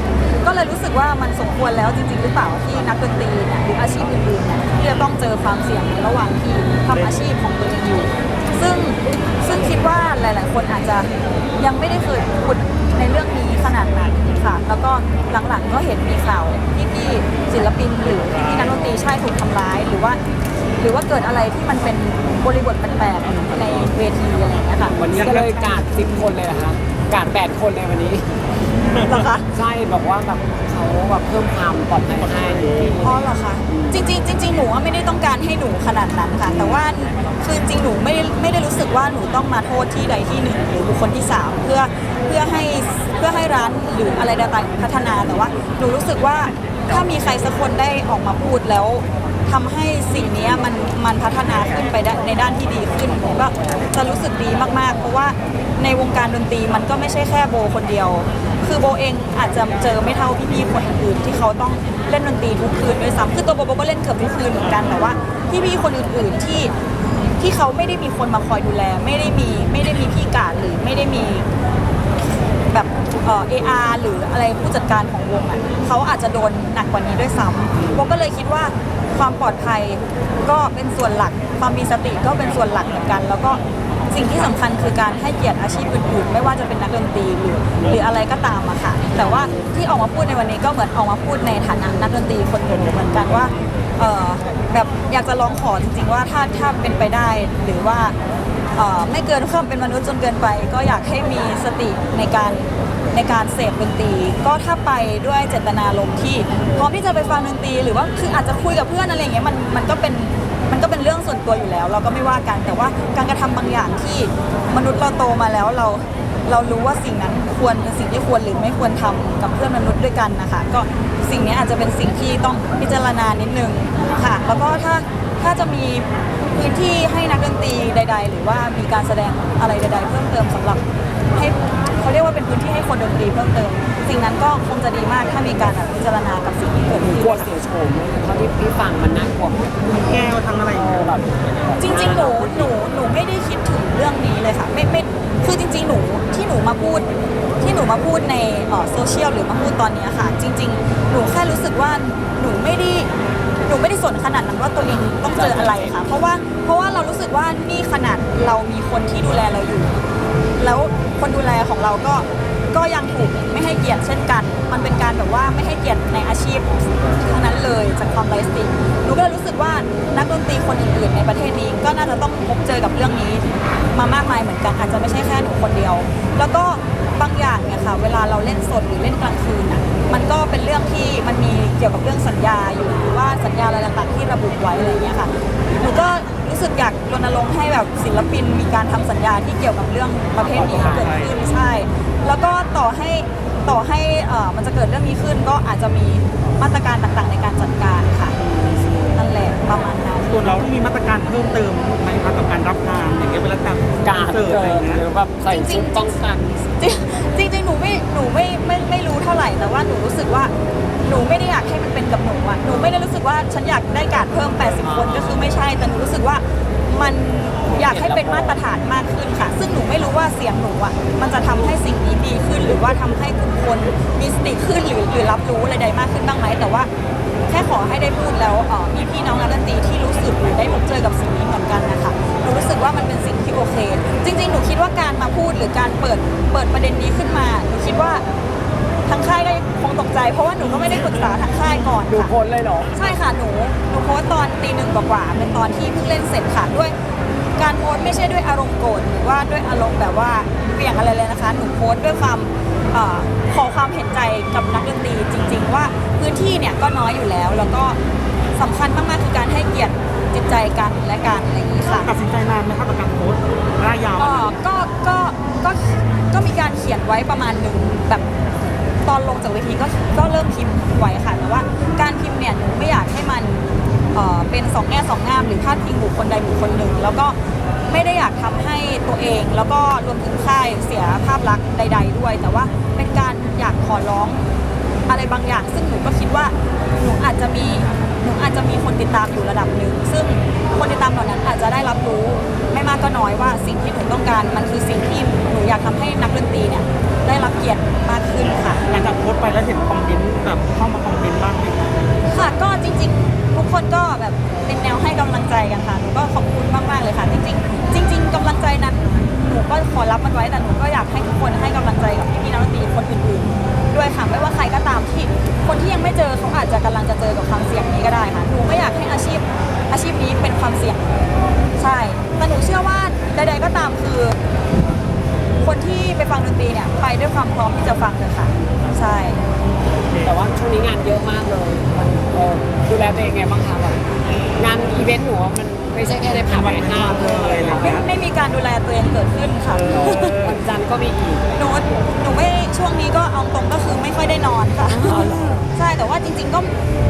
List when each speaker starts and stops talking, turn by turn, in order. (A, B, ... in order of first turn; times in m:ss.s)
0:00.4-0:20.2 A
0:20.8-0:25.0 A
0:25.0-0:28.3 B
0:25.0-0:25.8 C
0:29.0-0:29.5 A
0:29.5-0:34.1 B
0:33.0-1:06.7 A
0:36.5-0:36.8 B
1:07.4-1:11.5 A
1:12.7-1:38.2 A
1:38.8-2:10.8 A
2:11.3-2:17.6 A
2:17.0-2:22.7 B
2:19.9-2:21.1 C
2:21.8-2:27.1 A
2:27.6-2:33.1 A
2:33.6-2:40.0 A
2:35.3-2:36.0 B
2:40.6-3:18.4 A
3:10.6-3:11.2 B
3:10.8-3:11.3 C
3:19.1-3:20.7 A
3:20.3-3:25.0 C
3:24.0-3:26.6 B
3:25.5-3:26.2 A
3:26.7-3:46.9 A
3:34.7-3:35.5 B
3:37.6-3:38.6 B
3:47.5-3:58.2 A
3:59.1-4:02.3 A
4:02.1-4:02.9 B
4:02.9-4:07.0 A
4:07.6-4:18.0 A
4:18.6-4:22.1 A
4:22.0-4:24.6 C
4:24.2-4:28.3 A
4:29.0-4:37.4 A
4:37.9-4:44.5 A
4:45.1-4:58.9 A
4:58.9-5:02.2 C
5:02.3-5:21.2 A
5:21.8-5:24.4 A
5:25.6-5:29.4 A
5:29.8-5:30.3 C
5:30.2-5:38.1 B
5:36.5-5:38.0 C
5:37.7-5:40.4 A
5:39.8-5:42.1 B
5:39.8-5:40.5 C
5:41.6-5:46.7 A
5:44.9-5:45.7 B